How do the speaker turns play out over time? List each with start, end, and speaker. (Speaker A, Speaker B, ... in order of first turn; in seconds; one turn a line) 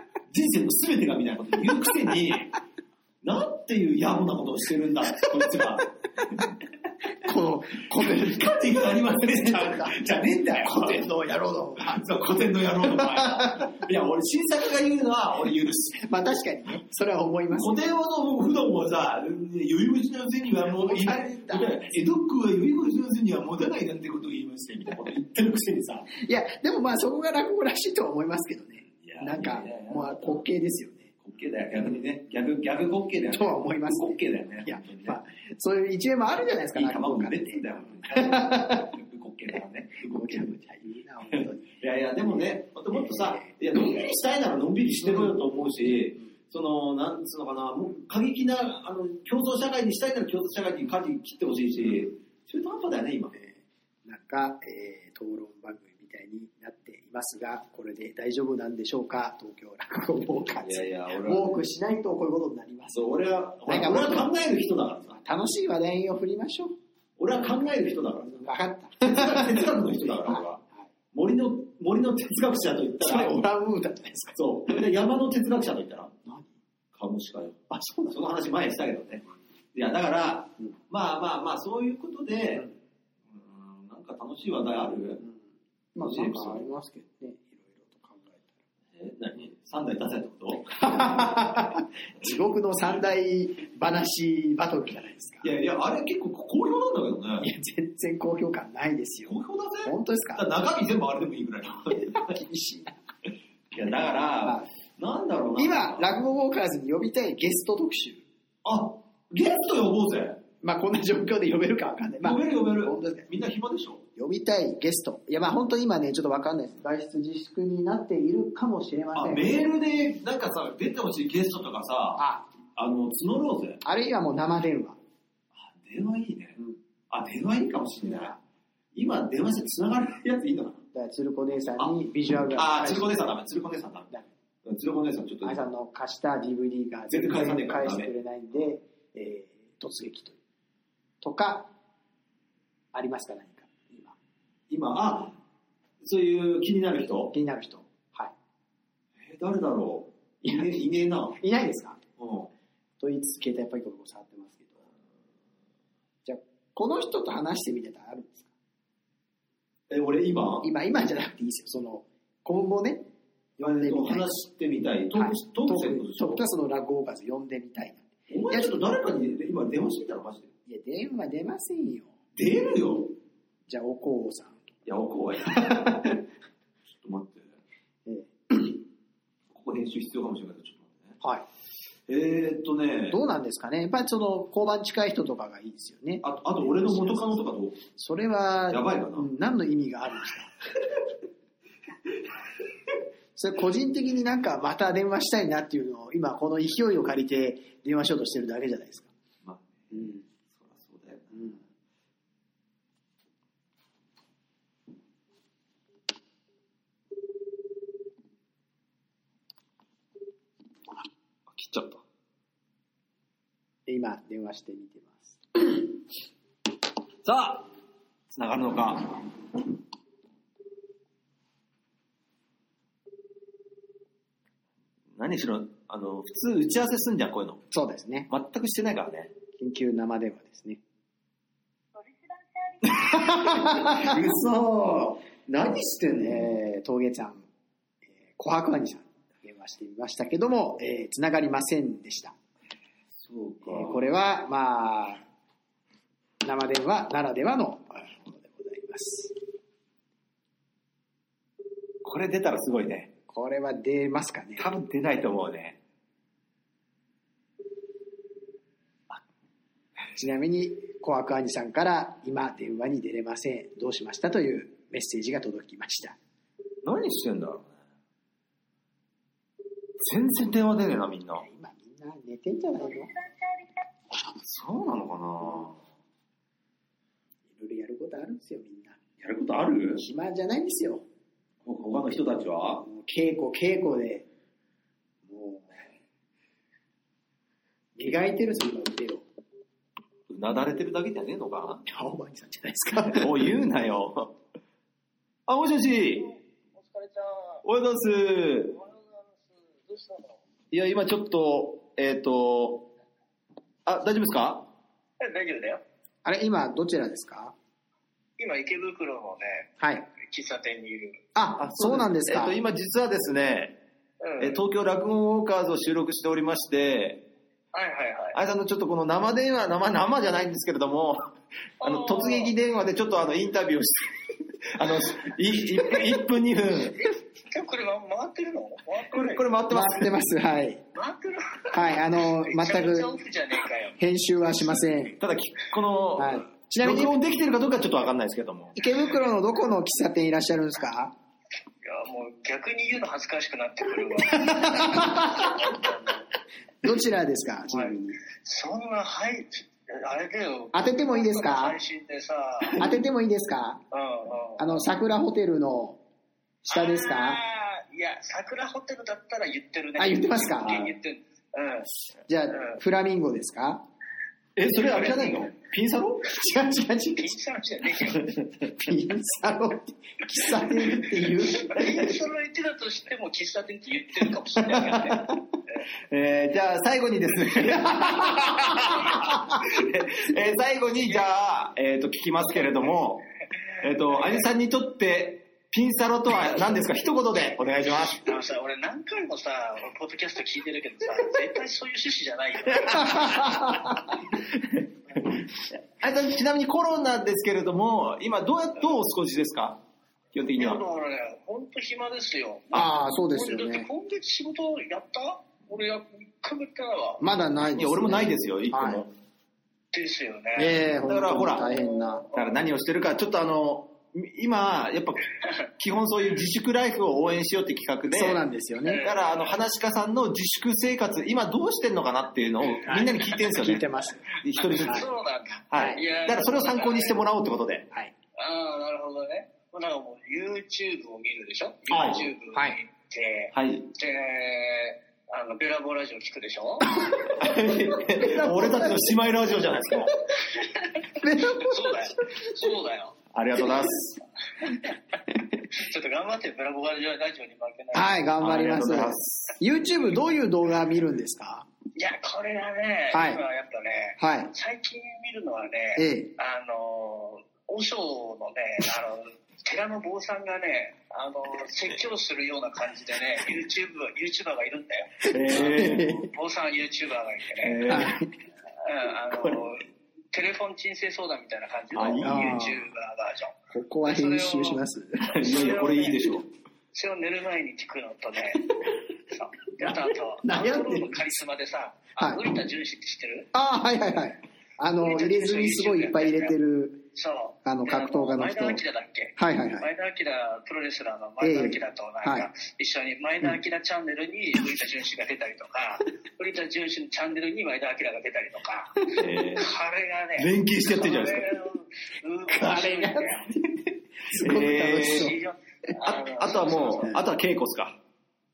Speaker A: 0.3-2.6
Speaker A: 3.2-5.9
Speaker B: 7.2-10.0
Speaker A: 8.0-11.1
Speaker B: 10.6-12.1
Speaker A: 11.8-16.0
Speaker B: 12.8-13.8
Speaker B: 16.0-17.8
Speaker A: 17.6-26.1
Speaker B: 20.7-21.9
Speaker B: 26.1-31.1
Speaker A: 29.0-30.4
Speaker A: 31.2-35.2
Speaker B: 33.3-38.9
Speaker A: 36.8-40.5
Speaker B: 40.1-41.7
Speaker A: 41.3-53.3
Speaker B: 43.0-43.5
Speaker B: 45.0-45.3
Speaker B: 53.3-63.0
Speaker A: 60.6-61.5
Speaker A: 62.9-65.2
Speaker B: 63.7-64.3
Speaker B: 65.1-66.7
Speaker A: 67.2-68.3
Speaker B: 68.3-69.7
Speaker A: 69.0-70.6
Speaker B: 70.2-70.9
Speaker A: 71.1-73.5
Speaker B: 73.0-74.4
Speaker A: 74.4-76.1
Speaker A: 76.9-77.6
Speaker B: 77.7-78.2
Speaker A: 78.1-82.7
Speaker A: 83.3-85.2
Speaker B: 86.0-88.6
Speaker A: 86.0-86.7
Speaker A: 89.0-91.4
Speaker B: 90.8-95.5
Speaker A: 95.4-97.5
Speaker B: 97.4-100.5
Speaker A: 99.3-102.3
Speaker B: 102.0-103.0
Speaker A: 103.7-106.1
Speaker B: 105.6-108.2
Speaker A: 108.6-110.4
Speaker B: 110.6-113.3
Speaker A: 112.2-114.0
Speaker B: 114.2-119.6
Speaker A: 119.2-122.2
Speaker B: 122.2-122.5
Speaker A: 122.8-123.8
Speaker B: 123.8-125.0
Speaker A: 125.5-126.6
Speaker A: 127.1-128.4
Speaker A: 128.9-130.8
Speaker B: 130.9-133.1
Speaker A: 132.6-134.1
Speaker A: 134.7-135.6
Speaker B: 135.4-140.4
Speaker A: 137.1-138.1
Speaker B: 141.2-141.7
Speaker B: 142.9-144.2
Speaker A: 144.7-145.4
Speaker A: 146.0-147.3
Speaker B: 147.3-148.3
Speaker A: 149.2-151.4
Speaker B: 150.4-150.7
Speaker B: 151.4-152.0
Speaker A: 152.2-152.5
Speaker B: 153.0-154.8
Speaker B: 156.2-158.5
Speaker A: 159.9-160.7
Speaker B: 160.6-163.1
Speaker B: 163.6-164.3
Speaker A: 163.6-166.4
Speaker B: 165.2-168.7
Speaker A: 168.3-170.5
Speaker B: 170.7-172.1
Speaker A: 172.4-173.1
Speaker B: 173.7-174.7
Speaker A: 174.9-176.0
Speaker B: 175.5-176.2
Speaker A: 176.9-177.5
Speaker B: 178.1-178.8
Speaker A: 179.5-181.2
Speaker A: 182.1-183.2
Speaker B: 183.1-187.3
Speaker A: 186.2-187.8
Speaker B: 187.9-190.7
Speaker A: 188.7-189.3
Speaker B: 193.3-199.1
Speaker A: 199.4-201.6
Speaker B: 199.9-200.2
Speaker A: 211.5-212.0
Speaker B: 213.9-215.7
Speaker A: 217.2-217.7
Speaker A: 218.3-219.2
Speaker A: 225.2-227.6
Speaker B: 227.7-228.3
Speaker A: 228.3-229.3
Speaker B: 229.6-230.8
Speaker A: 232.9-236.5
Speaker B: 232.9-234.2
Speaker B: 236.1-237.5
Speaker B: 238.3-242.3
Speaker A: 243.1-244.0
Speaker B: 243.6-245.2
Speaker B: 246.4-249.3
Speaker A: 252.0-253.1
Speaker B: 253.3-254.7
Speaker A: 254.6-255.8
Speaker B: 260.1-266.2
Speaker A: 266.8-267.8
Speaker A: 270.0-271.4
Speaker B: 271.4-273.1
Speaker A: 274.4-275.8
Speaker B: 277.5-279.0
Speaker A: 279.2-280.1
Speaker B: 280.0-281.1
Speaker A: 281.6-282.9
Speaker B: 282.8-284.3
Speaker B: 285.3-285.9
Speaker B: 288.0-289.2
Speaker A: 290.3-291.8
Speaker B: 291.9-293.5
Speaker A: 293.1-294.4
Speaker A: 295.5-296.3
Speaker C: 296.2-297.6
Speaker A: 297.6-298.8
Speaker C: 298.7-300.4
Speaker A: 300.7-302.9
Speaker A: 303.9-304.7
Speaker C: 305.2-305.8
Speaker B: 306.2-307.5
Speaker C: 308.4-311.2
Speaker B: 309.8-310.1
Speaker B: 311.4-312.6
Speaker A: 311.6-313.8
Speaker C: 314.2-314.6
Speaker A: 314.4-317.2
Speaker C: 317.7-318.4
Speaker A: 318.3-321.3
Speaker A: 321.8-324.1
Speaker C: 321.8-322.5
Speaker A: 324.7-327.0
Speaker C: 327.0-329.4
Speaker A: 329.1-330.1
Speaker B: 329.7-330.8
Speaker C: 330.9-334.0
Speaker B: 331.7-333.1
Speaker B: 334.0-335.2
Speaker A: 335.2-338.7
Speaker B: 336.2-337.2
Speaker B: 338.8-341.1
Speaker C: 341.8-346.3
Speaker B: 344.2-345.5
Speaker B: 346.8-348.2
Speaker C: 347.7-352.8
Speaker B: 350.7-351.8
Speaker B: 352.8-353.8
Speaker C: 353.9-354.8
Speaker B: 354.6-356.0
Speaker B: 356.7-357.4
Speaker C: 356.7-361.9
Speaker B: 360.0-360.9
Speaker A: 360.6-360.9
Speaker B: 362.3-363.8
Speaker C: 362.5-362.8
Speaker A: 364.6-366.3
Speaker C: 365.1-365.4
Speaker B: 366.3-367.4
Speaker C: 367.2-368.3
Speaker B: 368.7-372.1
Speaker C: 371.5-375.2
Speaker B: 374.8-375.3
Speaker A: 376.1-383.2
Speaker B: 377.7-379.1
Speaker A: 383.8-388.2
Speaker C: 388.1-394.0
Speaker B: 392.9-394.1
Speaker A: 394.6-399.8
Speaker A: 400.3-400.8
Speaker C: 400.6-407.2
Speaker B: 402.7-403.9
Speaker B: 407.2-409.0
Speaker A: 407.8-409.1
Speaker C: 409.9-410.8
Speaker B: 410.6-412.3
Speaker A: 411.0-411.7
Speaker A: 412.3-415.2
Speaker A: 415.8-418.4
Speaker B: 418.1-419.1
Speaker C: 418.9-419.6
Speaker A: 419.0-425.1
Speaker B: 422.9-425.1
Speaker C: 424.7-427.2
Speaker A: 425.7-427.9
Speaker B: 425.8-426.0
Speaker C: 428.4-436.9
Speaker A: 431.9-432.3
Speaker B: 432.5-432.8
Speaker A: 433.5-433.9
Speaker A: 437.4-440.1
Speaker B: 437.7-439.1
Speaker B: 441.2-442.5
Speaker C: 441.5-443.2
Speaker A: 443.3-444.2
Speaker C: 445.8-448.2
Speaker B: 447.9-451.7
Speaker A: 448.4-449.6
Speaker C: 452.0-468.1
Speaker B: 453.1-453.4
Speaker B: 454.2-454.5
Speaker B: 456.0-456.3
Speaker A: 465.3-466.2
Speaker B: 465.5-466.3
Speaker A: 467.6-468.2
Speaker B: 467.9-468.3
Speaker C: 468.8-473.5
Speaker A: 471.9-472.6
Speaker B: 472.2-472.9
Speaker B: 473.7-475.4
Speaker C: 474.1-474.8
Speaker A: 475.3-476.5
Speaker C: 475.3-476.4
Speaker C: 476.9-478.7
Speaker C: 479.3-483.5
Speaker B: 480.4-481.2
Speaker B: 482.2-482.4
Speaker B: 483.5-487.0
Speaker C: 485.0-486.6
Speaker C: 487.1-503.5
Speaker B: 487.6-488.8
Speaker B: 489.4-489.9
Speaker B: 491.4-492.5
Speaker A: 499.2-499.7
Speaker A: 500.4-501.6
Speaker B: 502.5-505.4
Speaker A: 504.4-505.3
Speaker C: 504.9-507.2
Speaker A: 506.0-508.0